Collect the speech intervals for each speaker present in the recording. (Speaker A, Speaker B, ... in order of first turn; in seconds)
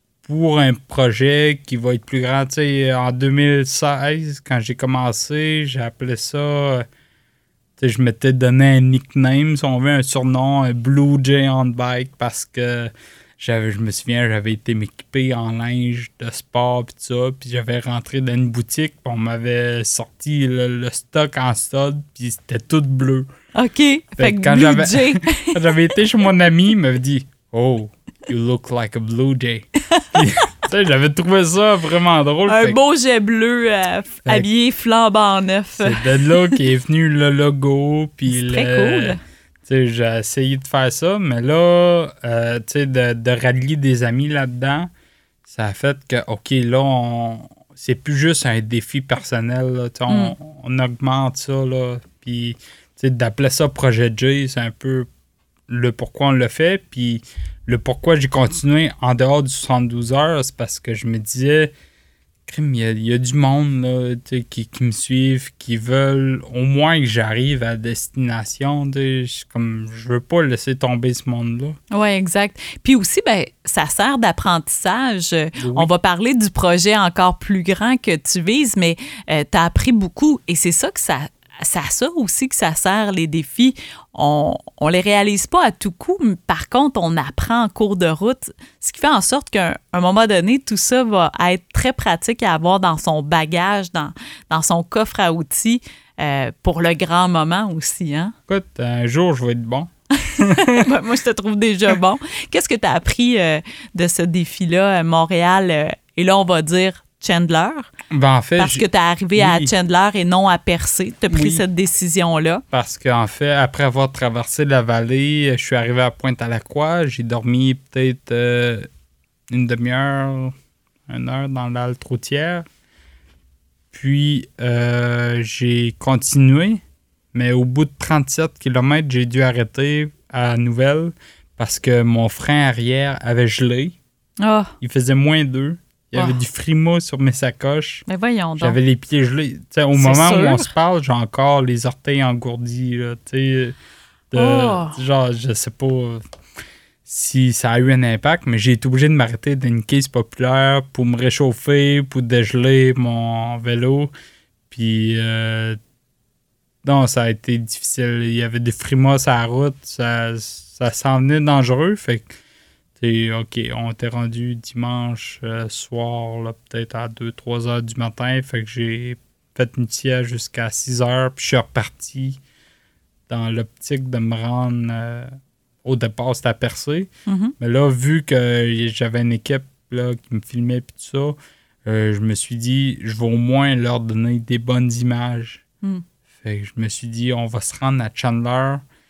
Speaker A: 0.2-6.9, 7.8-23.3, 24.2-32.8, 35.8-44.9, 45.5-55.1, 55.7-61.7, 62.5-71.8, 75.6-75.9, 98.5-100.9, 108.1-108.8, 109.4-109.7, 111.3-111.6, 112.7-118.9, 119.5-120.5, 121.1-122.7, 123.9-126.8, 127.3-134.0, 134.8-138.1, 138.6-143.8, 144.3-146.2, 147.1-154.1, 154.7-155.8, 156.8-162.3, 163.0-172.4, 173.3-175.3, 175.8-181.3, 181.9-185.6, 186.4-188.8
Speaker B: 23.6-25.8, 29.9-30.5, 32.5-36.6, 38.3-39.2, 50.1-50.4, 71.9-98.3, 100.2-107.9, 108.6-112.6, 134.4-134.7, 138.1-138.8, 139.9-140.7, 144.3-145.0, 177.3-177.6